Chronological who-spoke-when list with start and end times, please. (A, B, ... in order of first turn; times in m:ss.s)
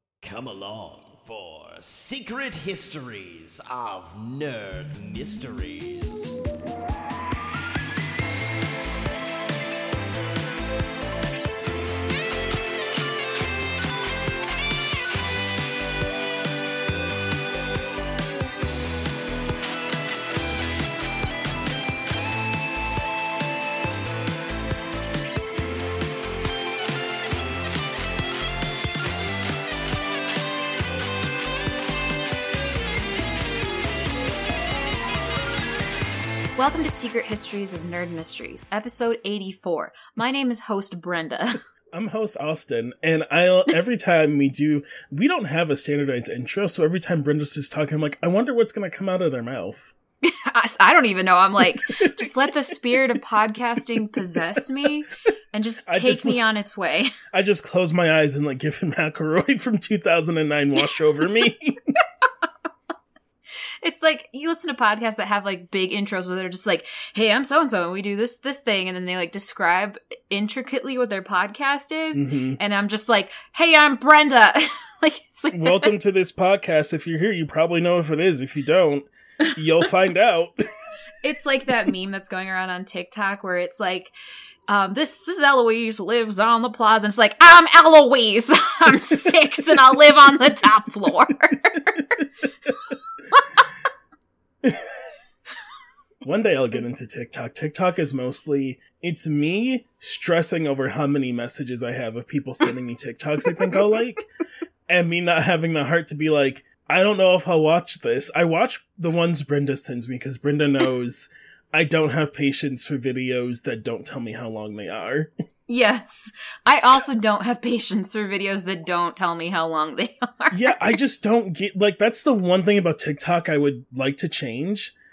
0:00.2-0:06.4 A
0:36.6-0:41.6 B
0:41.9-0:49.9 C
0:50.2-0:57.1 B
0:51.9-0:52.8 C
0:55.9-0:56.4 C
0:57.3-1:01.8 C
1:03.8-1:16.1 B
1:12.1-1:12.6 C
1:15.5-1:20.6 C
1:21.2-1:24.1 B
1:24.7-1:32.1 B
1:28.9-1:29.8 C
1:33.3-1:33.6 B
1:34.6-1:34.9 C
1:36.2-1:44.2 C
1:44.9-1:55.3 C
1:55.7-2:00.9 B
1:56.7-1:57.1 C
2:00.5-2:04.9 C